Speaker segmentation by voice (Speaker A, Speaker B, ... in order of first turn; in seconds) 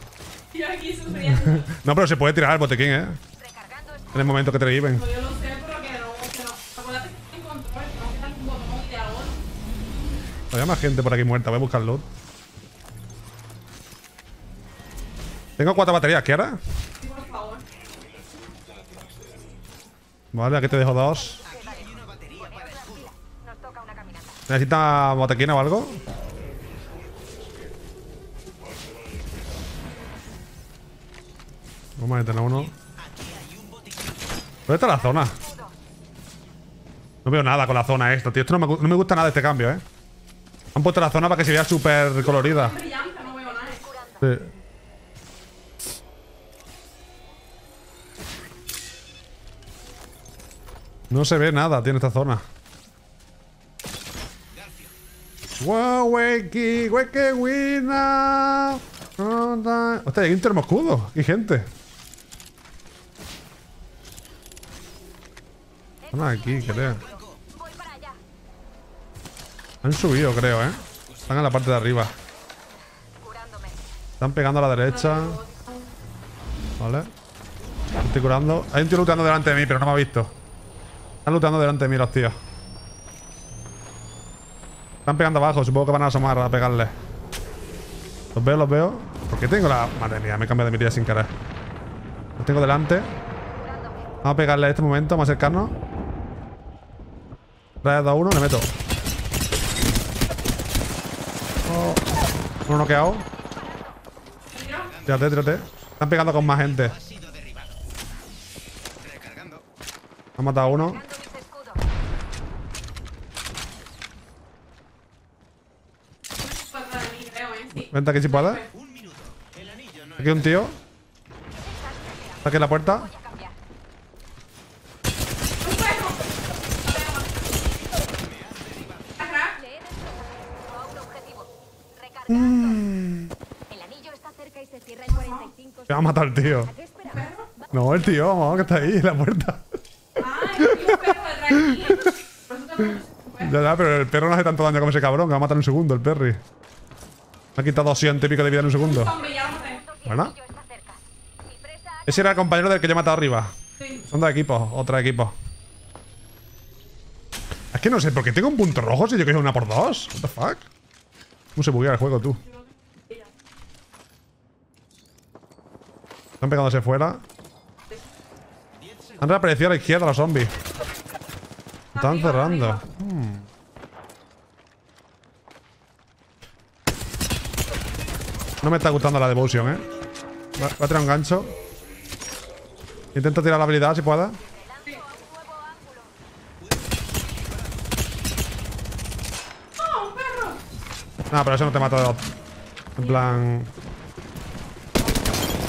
Speaker A: 0.5-1.7, 4.9-9.4, 17.0-17.6, 42.2-43.9, 75.0-75.9, 104.5-104.9, 116.4-118.6, 125.6-126.3, 126.9-127.3, 129.2-129.6, 135.0-135.5, 137.1-137.5, 140.2-143.6, 148.7-149.8, 162.4-163.3, 171.9-172.8, 189.8-190.6, 195.0-195.4
Speaker B: 1.3-3.2, 4.1-5.1, 10.5-12.1, 15.6-16.6, 20.3-21.4, 24.5-26.1, 32.0-32.8, 34.7-35.4, 37.2-39.8, 40.8-42.8, 44.2-44.5, 51.1-52.4, 55.6-61.7, 66.1-67.0, 69.8-72.2, 74.2-75.4, 76.8-77.1, 78.0-80.3, 81.2-82.4, 85.1-86.9, 88.3-91.3, 92.4-93.1, 94.2-95.7, 97.8-98.7, 101.7-102.1, 102.7-103.3, 105.0-107.0, 110.4-111.0, 117.8-118.7, 120.2-120.8, 122.4-123.1, 132.3-133.3, 135.9-136.8, 137.7-139.7, 140.6-141.0, 141.5-142.2, 143.4-146.4, 147.6-149.2, 150.1-150.3, 152.1-155.3, 157.7-160.7, 161.6-162.4, 166.4-167.2, 169.2-170.6, 171.9-173.5, 178.6-179.9, 180.6-181.5, 183.1-184.4, 191.3-192.2, 193.0-193.7
Speaker C: 3.4-4.1, 18.0-19.5, 21.5-24.3, 28.9-29.3, 33.1-34.0, 66.8-68.2, 73.2-73.8, 103.5-103.9, 107.0-107.7, 109.1-109.5, 111.0-111.7, 118.9-120.1, 121.7-122.4, 123.2-123.5, 129.7-131.5, 133.7-135.1, 149.9-151.0, 151.6-152.0, 184.5-186.1